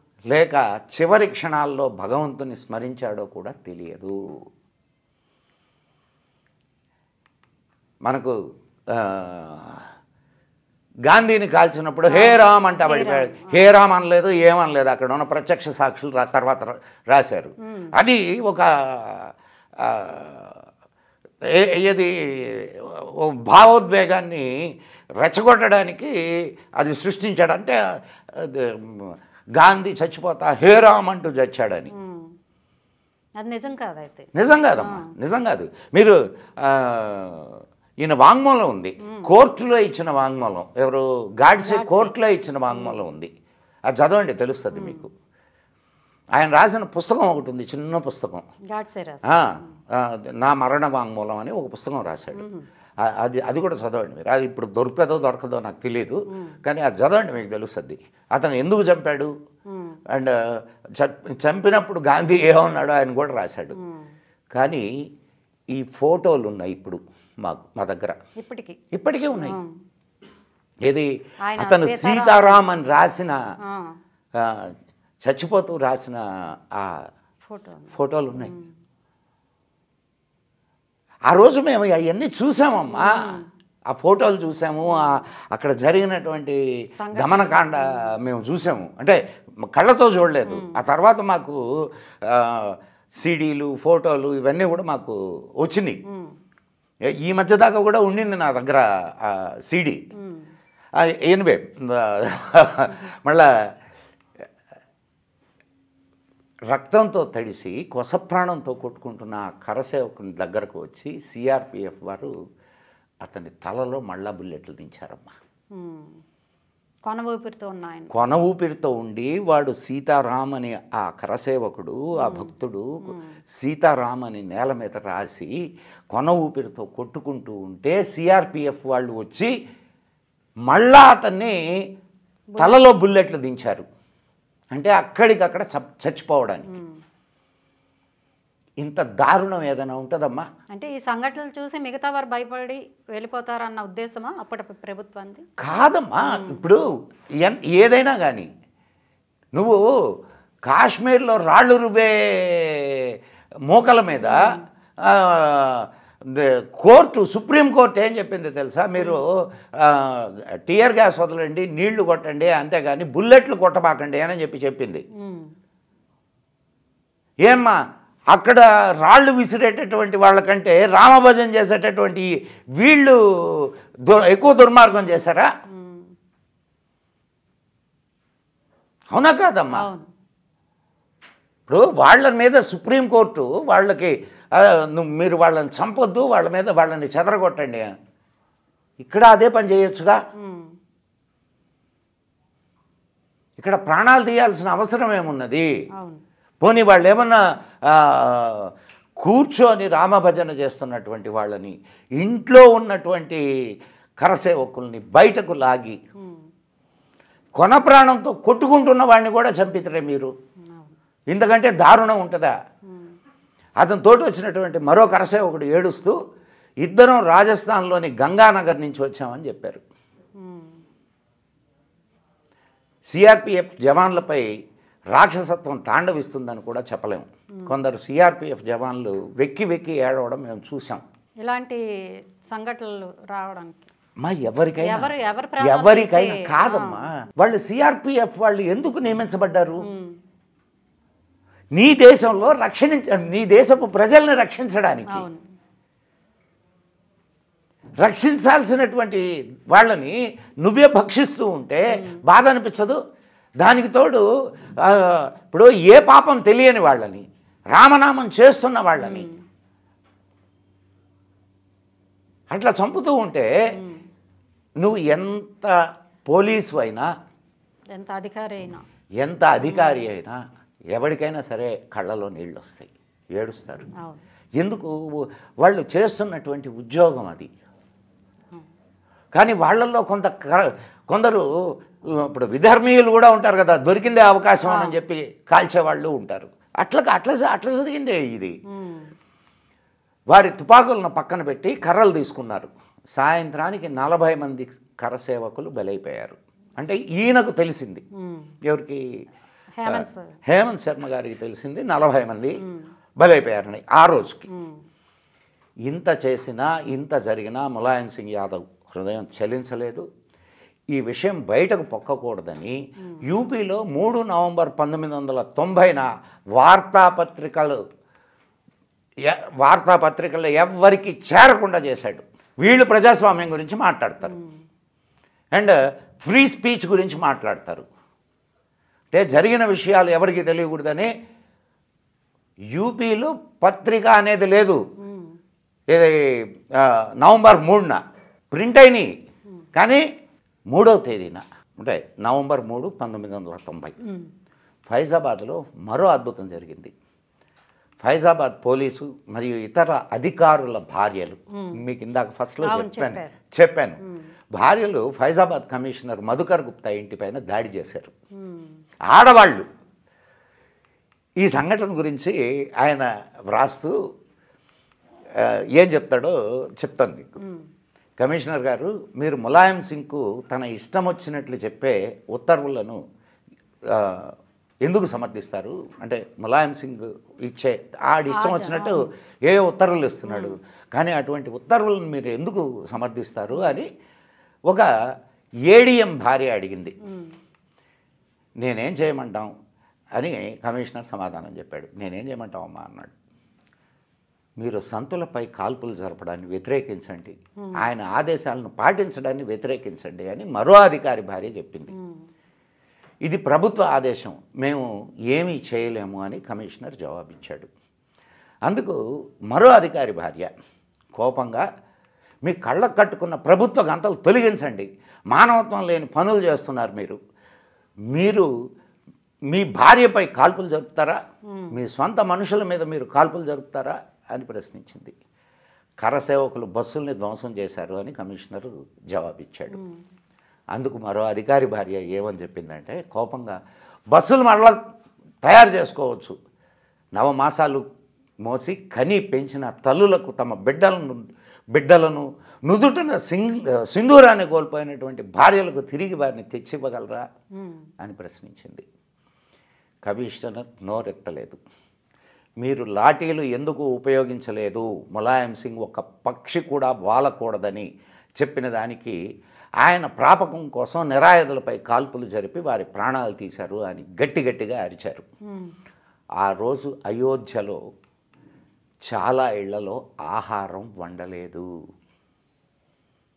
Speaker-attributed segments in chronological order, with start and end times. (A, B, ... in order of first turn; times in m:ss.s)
0:00.3-0:04.1 A
0:08.0-0:08.3 A
0:08.9-0:09.8 A
0:11.1-0:20.6 A
0:12.1-0:13.6 B
0:21.4-0:24.5 A
0:25.2-0:26.1 A
0:26.8-0:27.8 A
0:28.3-0:31.9 A
0:31.9-0:32.3 B
0:33.4-0:35.1 B
0:34.3-0:43.3 A
0:39.0-0:39.3 B
0:41.6-0:42.1 B
0:42.7-0:43.0 B
0:43.9-0:45.1 A
0:44.7-0:45.0 B
0:46.4-0:48.4 A
0:48.7-0:49.2 B
0:49.3-0:52.4 A
0:52.4-0:52.6 B
0:53.0-0:59.3 A
0:59.7-1:00.0 B
1:01.0-1:03.8 A
1:03.7-1:04.1 B
1:04.5-1:04.8 A
1:05.7-1:08.2 A
1:08.4-1:08.8 B
1:08.9-1:09.6 A
1:09.4-1:09.7 B
1:10.8-1:13.4 A
1:11.4-1:12.6 B
1:13.6-1:13.9 B
1:14.4-1:14.7 A
1:15.2-1:16.2 A
1:16.7-1:17.0 A
1:17.5-1:18.7 B
1:17.9-1:18.5 A
1:21.3-1:23.2 A
1:22.9-1:23.4 B
1:23.9-1:26.6 A
1:27.0-1:28.0 B
1:27.1-1:31.6 A
1:30.5-1:30.8 B
1:32.2-1:36.0 A
1:36.1-1:36.3 B
1:37.2-1:40.0 A
1:40.2-1:40.5 B
1:41.0-1:43.5 A
1:46.7-1:52.3 A
1:53.2-1:55.3 A
1:55.7-1:56.2 B
1:57.0-1:58.1 B
1:58.1-2:05.5 A
2:02.2-2:02.5 B
2:03.0-2:03.3 B
2:06.1-2:09.5 A
2:10.7-2:11.6 A
2:12.6-2:12.8 B
2:12.6-2:13.8 A
2:14.7-2:16.7 A
2:16.7-2:17.0 B
2:18.8-2:20.5 A
2:20.7-2:25.4 B
2:25.6-2:26.8 A
2:26.3-2:26.6 B
2:27.4-2:28.5 A
2:29.5-2:29.9 A
2:30.6-2:33.2 A
2:33.7-2:34.4 A
2:34.2-2:34.6 B
2:35.0-2:45.0 A
2:45.1-2:45.5 B
2:47.4-2:47.8 A
2:48.3-2:55.5 A
2:55.7-2:56.1 B
2:59.1-2:59.8 A
2:59.7-3:00.0 B
3:01.7-3:07.9 A
3:09.0-3:10.2 A
3:10.4-3:10.7 B
3:13.6-3:15.6 A
3:16.6-3:23.4 A
3:24.2-3:26.0 A
3:27.6-3:30.3 A
3:30.7-3:30.9 B
3:31.3-3:32.5 A
3:33.8-3:36.2 A
3:36.8-3:39.8 A
3:40.4-3:40.8 B
3:43.1-3:44.5 A
3:45.1-3:51.0 A
3:51.4-3:51.8 B
3:52.5-3:53.9 B
3:54.2-3:55.1 A
3:54.8-3:57.1 B
3:55.6-3:59.8 A
3:59.8-4:00.2 B
4:01.8-4:05.3 A
4:05.1-4:05.4 B
4:08.0-4:13.0 A
4:13.6-4:14.2 A
4:14.8-4:19.3 A
4:19.0-4:19.4 B
4:22.5-4:23.5 A
4:23.8-4:24.0 B
4:24.8-4:25.7 A
4:26.3-4:27.1 A
4:27.9-4:28.8 B
4:29.2-4:30.4 A
4:29.7-4:30.0 B
4:30.9-4:33.9 A
4:34.6-4:37.5 A
4:39.3-4:41.4 A
4:42.2-4:48.6 A
4:44.6-4:45.0 B
4:48.7-4:49.1 B
4:50.3-4:58.0 A
4:58.2-4:58.5 B
4:58.6-4:59.0 A
4:59.8-5:00.3 B
4:59.9-5:02.6 A
5:03.2-5:04.5 A
5:04.5-5:04.8 B
5:05.8-5:10.0 A
5:10.9-5:17.8 A
5:19.2-5:24.4 A
5:24.2-5:24.5 B
5:25.5-5:27.9 A
5:29.1-5:31.1 A
5:32.7-5:34.8 A
5:35.0-5:35.4 B
5:35.9-5:39.1 A
5:39.7-5:40.0 A
5:40.7-5:44.0 A
5:44.0-5:44.3 B
5:44.9-5:46.9 A
5:48.0-5:54.0 A
5:52.6-5:53.3 B
5:54.5-5:58.1 A
5:58.4-5:58.7 B
5:59.1-5:59.6 A
6:01.4-6:03.9 A
6:05.4-6:07.4 A
6:07.4-6:07.6 B
6:08.2-6:13.0 A
6:13.9-6:23.9 A
6:18.3-6:19.0 B
6:20.3-6:20.6 B
6:25.7-6:26.9 A
6:27.0-6:27.4 B
6:28.6-6:29.5 A
6:30.2-6:33.1 A
6:34.6-6:41.9 A
6:41.9-6:42.2 B
6:43.2-6:47.7 A
6:48.6-6:49.0 A
6:49.5-6:50.5 A
6:51.1-6:51.6 A
6:52.4-6:57.2 A
6:58.1-6:58.5 A
6:59.5-7:01.2 A
7:01.7-7:05.1 A
7:06.0-7:09.8 A
7:09.7-7:10.0 B
7:10.7-7:13.6 A
7:14.1-7:14.8 A
7:15.4-7:16.3 A
7:17.1-7:17.8 A
7:18.4-7:27.2 A
7:27.6-7:27.8 B
7:28.0-7:28.8 A
7:30.0-7:31.6 A
7:32.6-7:37.9 A
7:38.4-7:39.2 A
7:39.8-7:45.3 A
7:46.4-7:47.8 A
7:49.1-7:51.6 A